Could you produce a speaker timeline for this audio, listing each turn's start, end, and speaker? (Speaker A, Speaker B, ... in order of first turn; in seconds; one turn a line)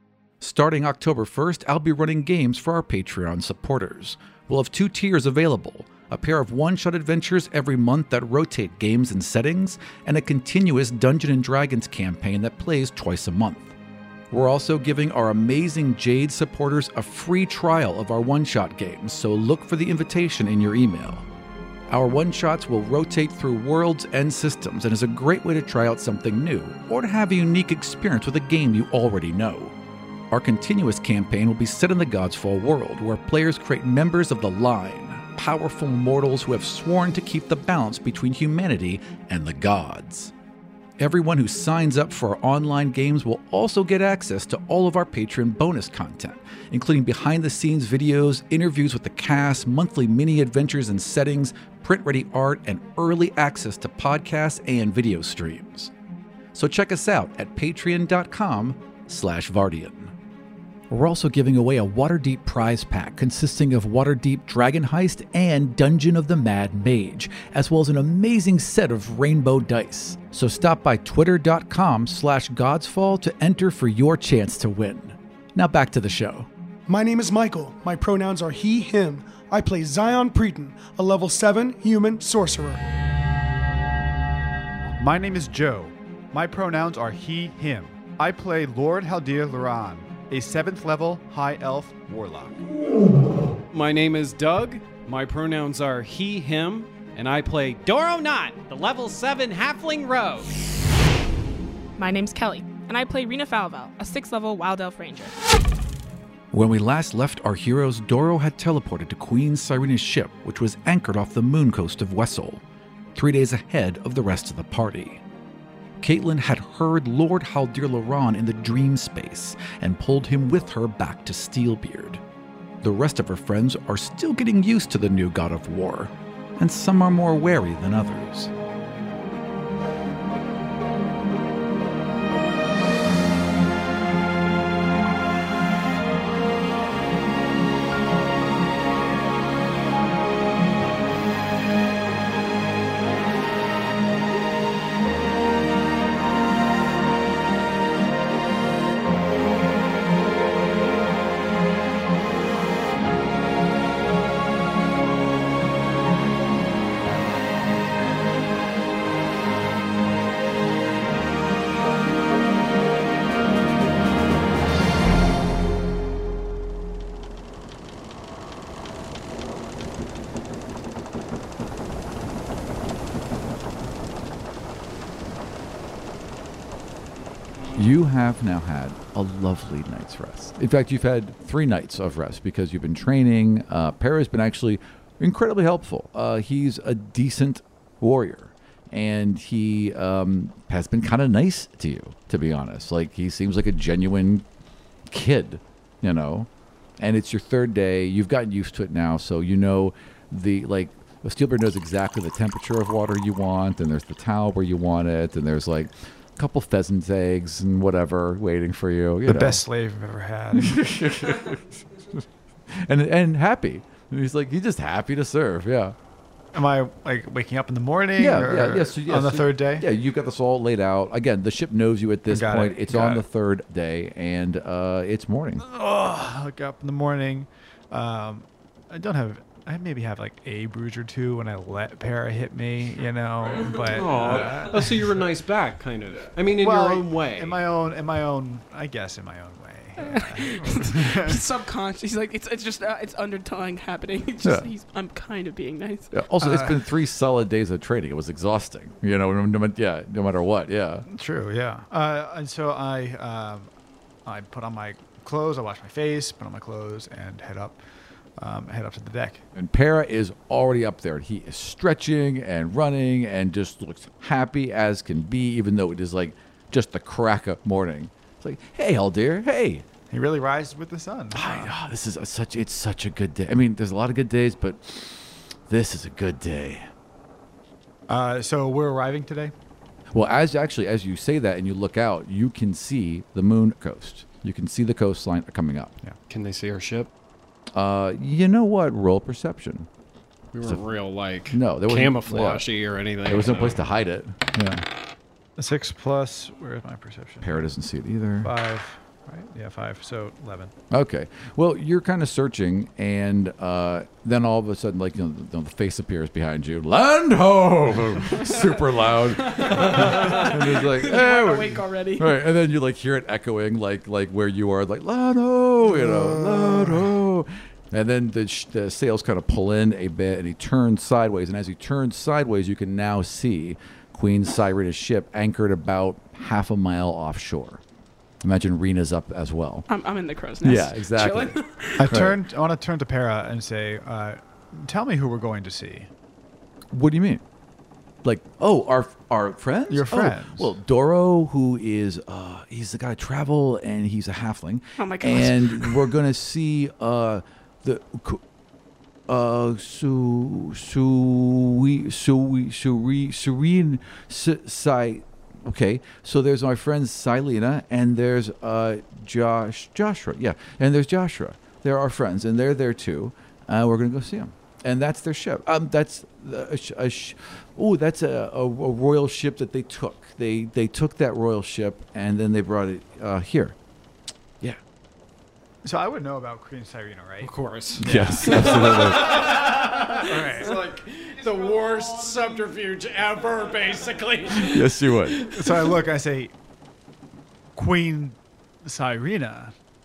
Speaker A: 0.4-13.8
Speaker A: 14.3-21.3
Speaker A: 21.9-29.8
Speaker A: 30.3-40.3
Speaker A: 41.0-55.9
Speaker A: 56.5-60.1
Speaker A: 60.9-76.5
Speaker B: 76.9-82.8
Speaker C: 85.0-92.7
Speaker D: 93.7-100.5
Speaker E: 102.0-105.4
Speaker A: 106.5-112.6
Speaker A: 113.2-115.2
Speaker A: 116.0-122.2
Speaker A: 122.8-128.5
Speaker A: 177.8-194.5
Speaker A: 195.1-209.6
Speaker C: 209.3-210.8
Speaker A: 210.6-216.0
Speaker C: 216.5-219.9
Speaker A: 218.2-225.6
Speaker C: 222.3-223.2
Speaker C: 225.6-235.1
Speaker D: 233.9-237.6
Speaker A: 234.1-234.7
Speaker C: 236.5-241.4
Speaker E: 240.0-246.1
Speaker A: 244.4-244.7
Speaker A: 246.1-251.1
Speaker C: 246.4-246.9
Speaker C: 251.1-253.7
Speaker C: 254.3-257.8
Speaker C: 258.4-259.4
Speaker A: 259.6-269.9
Speaker C: 270.1-271.8
Speaker A: 271.3-276.9
Speaker C: 278.1-279.5
Speaker A: 280.1-285.9
Speaker D: 286.3-287.1
Speaker A: 287.7-289.9
Speaker D: 290.5-293.8
Speaker A: 291.5-292.7
Speaker A: 293.2-294.9
Speaker C: 295.6-297.6
Speaker A: 297.4-298.5
Speaker C: 298.4-300.7
Speaker A: 300.9-327.8
Speaker E: 308.2-312.4
Speaker B: 315.9-317.1
Speaker A: 328.4-329.9
Speaker E: 329.9-332.2
Speaker A: 330.6-332.4
Speaker C: 332.0-336.1
Speaker A: 336.9-337.4
Speaker A: 338.2-348.4
Speaker C: 339.9-340.7
Speaker E: 345.0-346.1
Speaker A: 349.3-373.8
Speaker C: 375.8-380.9
Speaker D: 377.4-385.9
Speaker A: 378.0-379.6
Speaker A: 384.5-385.5
Speaker C: 385.5-386.5
Speaker C: 387.8-389.7